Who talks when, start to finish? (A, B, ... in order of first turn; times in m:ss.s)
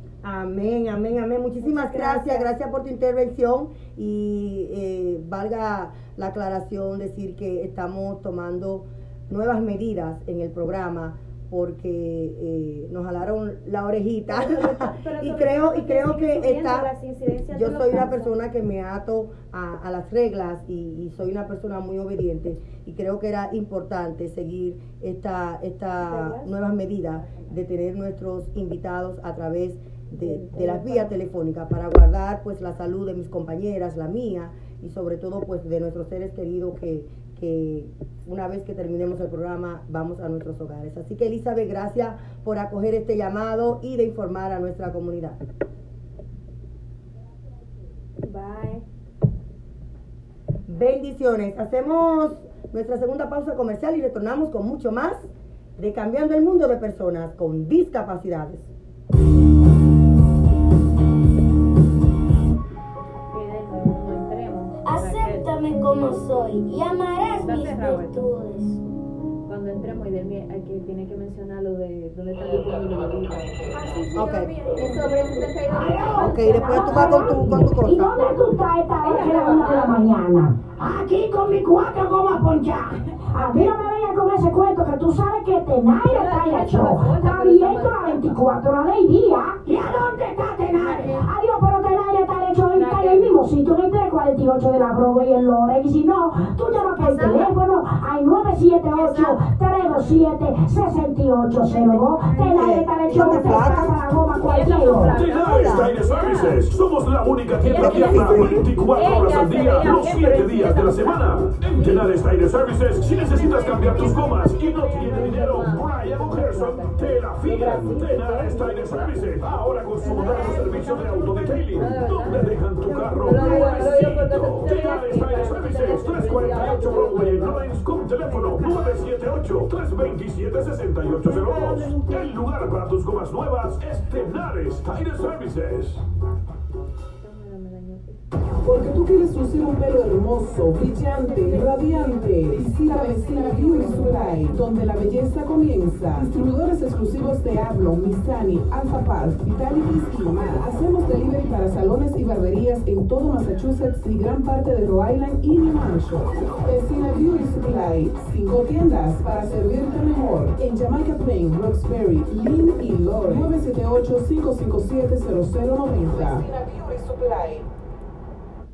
0:00.2-0:16.9 A
0:01.6-0:02.5 B
0:14.3-0:18.4 B
0:17.5-0:45.4 A
0:26.0-0:26.6 B
0:27.2-0:27.5 B
0:30.2-0:31.1 B
0:48.2-0:48.8 B
0:50.7-0:58.7 A
1:03.3-1:05.5 C
1:04.8-1:08.8 D
1:07.4-1:08.2 C
1:09.5-1:14.1 C
1:13.9-1:15.1 B
1:14.1-1:14.9 A
1:14.8-1:17.6 C
1:15.7-1:45.2 E
1:16.1-1:18.1 A
1:18.2-1:18.4 C
1:19.0-1:20.0 C
1:26.0-1:28.2 C
1:30.8-1:31.3 C
1:32.8-1:33.3 C
1:42.3-1:44.0 A
1:44.4-1:46.6 C
1:45.2-2:16.0 F
1:45.4-1:45.9 A
1:47.5-1:52.2 C
1:47.8-1:48.7 A
1:52.8-1:59.3 C
2:00.0-2:08.8 C
2:03.0-2:03.9 B
2:06.5-2:07.2 B
2:08.2-2:08.8 B
2:11.2-2:11.8 C
2:11.3-2:12.2 B
2:17.2-2:18.2 C
2:18.6-2:47.7 G
2:20.9-2:24.0 B
2:21.3-2:22.1 C
2:23.3-2:24.1 C